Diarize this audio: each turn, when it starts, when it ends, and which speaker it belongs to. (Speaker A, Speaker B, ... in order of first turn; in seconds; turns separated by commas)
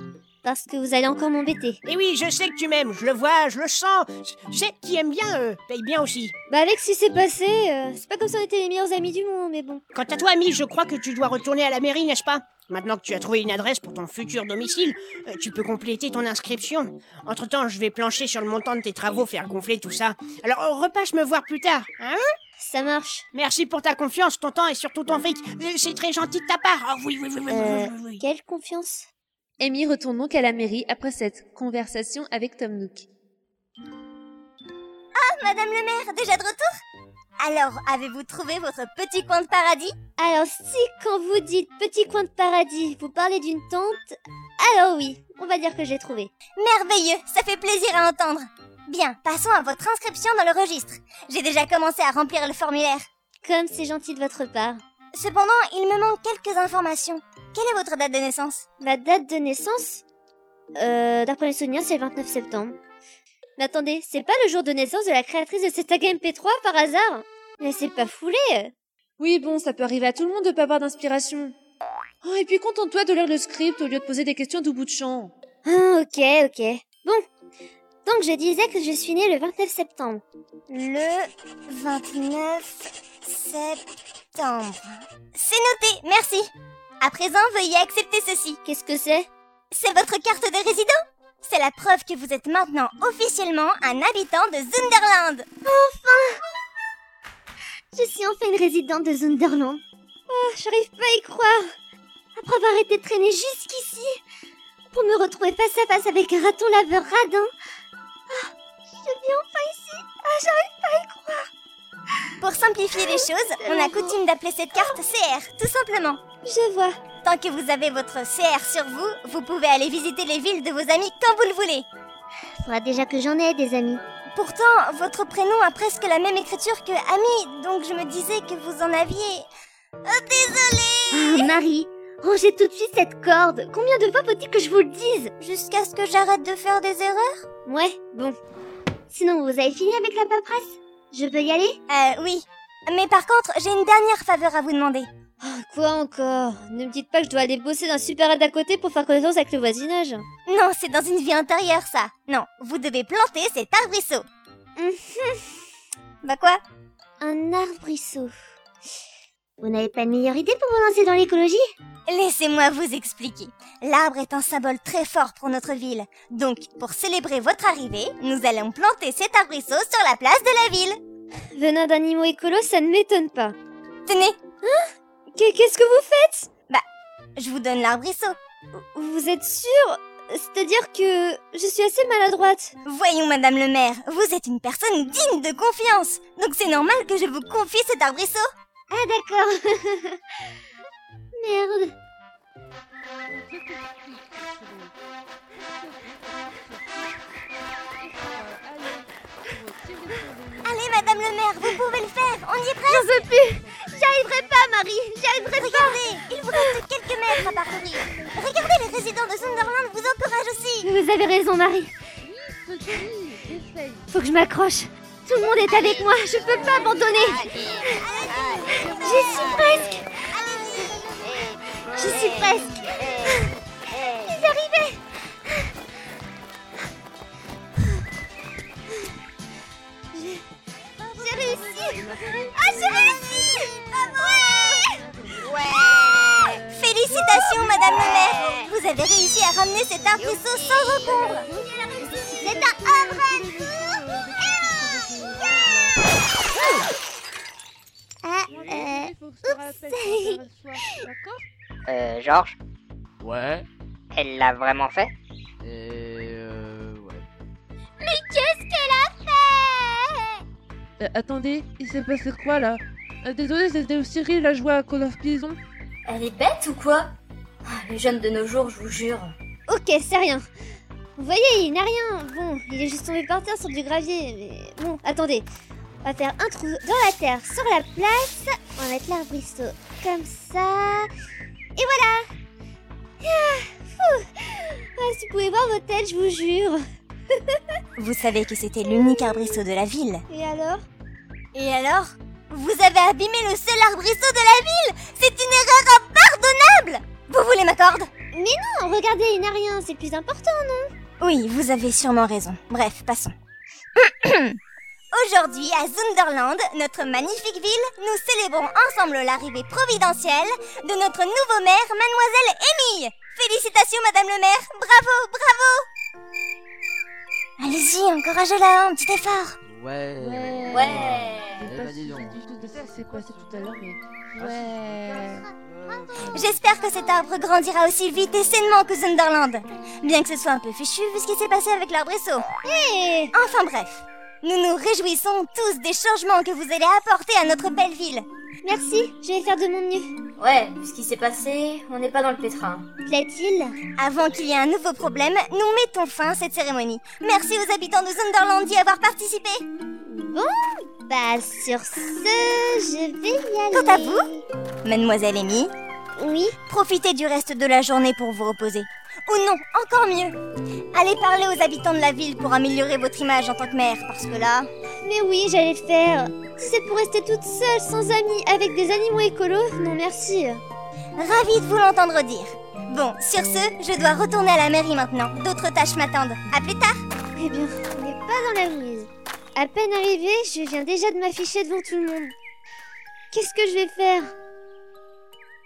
Speaker A: 0.4-1.8, Speaker B: 1.9-6.3, Speaker A: 6.5-9.8, Speaker B: 9.9-22.2, Speaker A: 22.6-23.2, Speaker B: 23.3-28.2, Speaker A: 27.5-29.1, Speaker C: 29.6-33.1, Speaker D: 35.2-36.7, Speaker D: 37.4-40.0, Speaker A: 40.2-46.3, Speaker D: 46.6-53.0, Speaker A: 53.5-54.8, Speaker D: 55.1-58.6, Speaker A: 58.8-60.0, Speaker A: 60.8-62.8, Speaker A: 63.6-68.7, Speaker C: 69.2-71.5, Speaker C: 72.2-75.3, Speaker A: 75.7-77.2, Speaker A: 78.1-80.2, Speaker D: 80.7-83.8, Speaker D: 84.3-86.5, Speaker D: 87.0-88.6, Speaker A: 88.7-89.3, Speaker D: 89.7-95.5, Speaker A: 95.7-96.4, Speaker A: 97.9-101.6, Speaker A: 102.4-104.2, Speaker A: 104.9-107.5, Speaker A: 108.3-111.5, Speaker D: 112.4-116.2, Speaker A: 113.0-114.2, Speaker A: 116.4-116.9, Speaker D: 117.2-121.9, Speaker A: 122.7-124.0, Speaker D: 124.3-129.5, Speaker D: 130.1-131.6, Speaker A: 131.1-135.3, Speaker D: 135.4-137.4, Speaker A: 137.7-138.3, Speaker A: 139.1-141.8, Speaker D: 141.9-145.1, Speaker A: 145.4-150.3, Speaker D: 150.5-154.3, Speaker A: 154.8-155.5, Speaker D: 156.2-156.6, Speaker A: 157.2-158.3, Speaker A: 159.6-161.6, Speaker D: 162.1-171.0, Speaker A: 171.6-173.6, Speaker D: 174.1-174.4, Speaker A: 175.4-176.5, Speaker D: 177.4-178.4, Speaker A: 178.8-182.8, Speaker D: 182.8-188.5, Speaker A: 188.9-190.2, Speaker A: 191.4-191.9, Speaker E: 193.3-194.9, Speaker E: 195.6-197.2, Speaker E: 198.0-201.8, Speaker D: 200.6-203.1, Speaker A: 202.9-206.0, Speaker E: 202.9-206.7, Speaker D: 205.6-210.9, Speaker E: 207.3-210.2, Speaker A: 210.8-211.9, Speaker E: 212.2-214.1, Speaker A: 214.1-218.0, Speaker F: 215.7-220.1, Speaker E: 216.5-220.0, Speaker D: 218.0-219.4, Speaker A: 218.7-220.1, Speaker D: 220.3-221.2, Speaker F: 221.2-224.5, Speaker A: 221.9-223.5, Speaker A: 224.2-225.0, Speaker A: 230.1-230.4, Speaker E: 231.0-236.9, Speaker A: 231.2-232.3, Speaker D: 232.5-235.0, Speaker A: 233.4-233.7, Speaker F: 235.4-236.4, Speaker D: 236.7-241.5, Speaker F: 238.0-238.7, Speaker E: 238.0-238.6, Speaker F: 240.2-241.3, Speaker E: 241.0-246.0, Speaker A: 242.0-242.8, Speaker D: 242.4-243.4, Speaker D: 248.2-248.6, Speaker E: 248.5-251.4, Speaker A: 248.6-249.1, Speaker F: 251.9-252.6, Speaker G: 253.2-253.7, Speaker F: 254.1-255.1, Speaker G: 255.6-257.2, Speaker A: 258.2-259.8, Speaker E: 261.0-265.6, Speaker H: 266.1-267.1, Speaker H: 267.7-269.3, Speaker A: 269.7-270.5, Speaker A: 271.2-275.5, Speaker A: 276.0-281.1, Speaker A: 281.8-282.2, Speaker A: 283.2-286.8, Speaker D: 288.0-290.2, Speaker A: 290.3-290.8, Speaker D: 291.5-298.1, Speaker A: 298.3-300.9, Speaker D: 301.2-303.4, Speaker D: 304.0-304.6, Speaker D: 305.1-315.9, Speaker D: 317.6-319.6, Speaker G: 319.7-323.6, Speaker E: 320.2-325.5, Speaker H: 320.7-321.7, Speaker G: 324.4-325.2, Speaker D: 325.9-332.5, Speaker G: 326.2-326.6, Speaker A: 332.6-333.3, Speaker D: 333.3-338.3, Speaker A: 338.6-340.1, Speaker H: 340.4-342.9, Speaker A: 343.1-343.8, Speaker D: 344.0-349.6, Speaker A: 350.1-354.4, Speaker D: 353.7-354.3, Speaker D: 354.8-355.7, Speaker A: 356.2-356.6, Speaker D: 356.6-360.4, Speaker D: 360.9-364.7, Speaker A: 365.0-370.6, Speaker D: 371.2-377.0, Speaker A: 377.4-382.3, Speaker A: 383.3-384.3